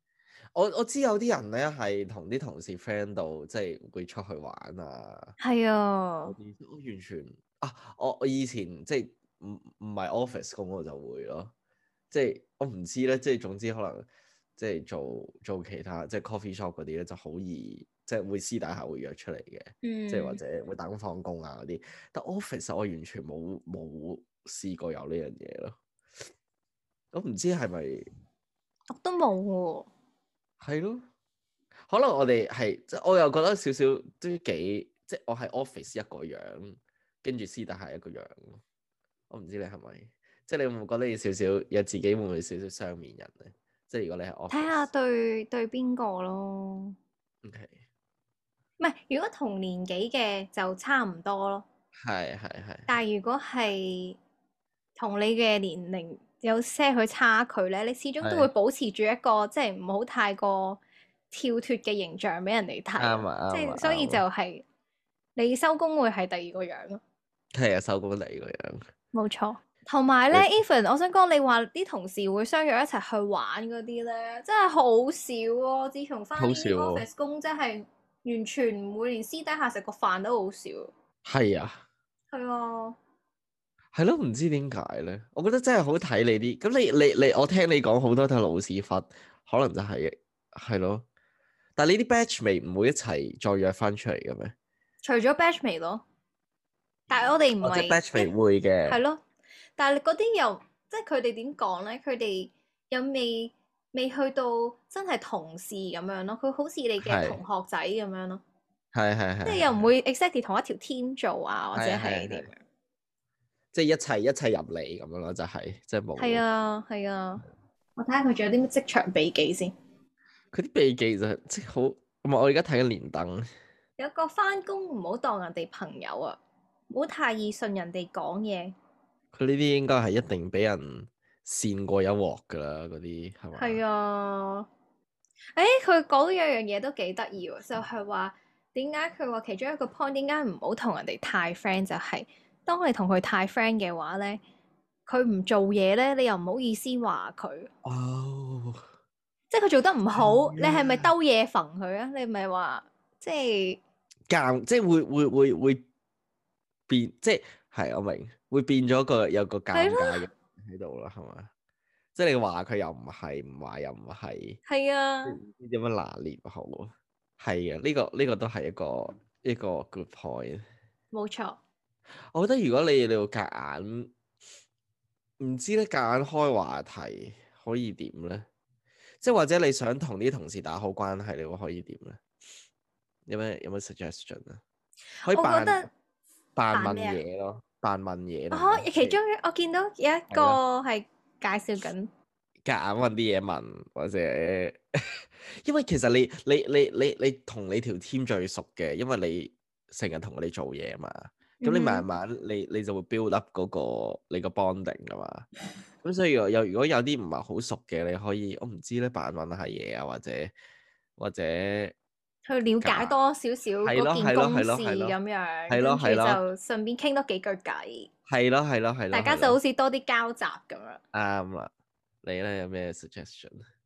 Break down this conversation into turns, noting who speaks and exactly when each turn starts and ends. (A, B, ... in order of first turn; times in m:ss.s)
0:00.5-0:05.3 A
0:05.4-0:06.4 B
0:06.3-0:11.5 A
0:12.1-0:14.0 A
0:14.6-0:25.8 A
0:19.8-0:20.4 B
0:27.1-0:28.0 A
0:28.9-0:29.9 B
0:30.6-0:31.0 A
0:31.9-0:38.6 A
0:39.3-0:44.9 A
0:44.5-0:47.0 B
0:47.4-0:47.8 A
0:48.8-0:51.6 B
0:52.0-0:52.9 A
0:52.9-0:54.2 B
0:55.0-1:00.8 B
0:58.2-0:58.5 A
1:01.3-1:04.6 B
1:03.0-1:04.2 A
1:05.4-1:07.0 B
1:07.5-1:08.8 A
1:09.1-1:20.9 B
1:16.4-1:17.1 A
1:21.2-1:21.8 A
1:22.3-1:23.0 B
1:23.9-1:31.0 A
1:31.8-1:34.5 A
1:35.0-1:36.0 B
1:37.1-1:38.3 B
1:37.6-1:39.0 A
1:38.9-1:39.2 B
1:39.8-1:48.4 B
1:47.0-1:47.4 A
1:48.9-1:49.8 A
1:49.4-1:52.6 B
1:51.7-1:52.5 A
1:53.7-1:56.4 A
1:56.2-1:57.4 B
1:58.0-1:59.7 B
2:00.5-2:03.4 A
2:04.0-2:06.4 B
2:06.9-2:08.7 B
2:09.3-2:13.8 A
2:13.5-2:14.7 B
2:15.6-2:24.4 B
2:25.1-2:27.7 B
2:27.8-2:28.8 A
2:29.5-2:33.8 B
2:30.1-2:31.1 A
2:34.3-2:35.8 A
2:36.9-2:41.5 A
2:39.7-2:40.3 B
2:42.1-2:44.6 A
2:44.6-2:45.4 B
2:45.2-2:50.6 A
2:51.1-2:51.6 B
2:52.3-2:54.1 A
2:55.4-2:58.4 A
2:59.2-3:02.2 A
3:03.3-3:04.6 A
3:05.2-3:05.9 A
3:05.3-3:05.9 B
3:06.6-3:09.2 A
3:06.7-3:07.2 B
3:08.5-3:12.1 B
3:10.3-3:10.6 A
3:12.6-3:14.8 A
3:15.6-3:25.4 A
3:21.6-3:22.0 B
3:26.0-3:30.5 A
3:31.2-3:31.9 A
3:32.4-3:38.1 B
3:32.8-3:33.2 A
3:33.8-3:35.2 A
3:35.7-3:36.4 A
3:38.3-3:39.6 A
3:39.1-3:41.0 B
3:41.1-3:41.7 A
3:42.2-3:43.6 A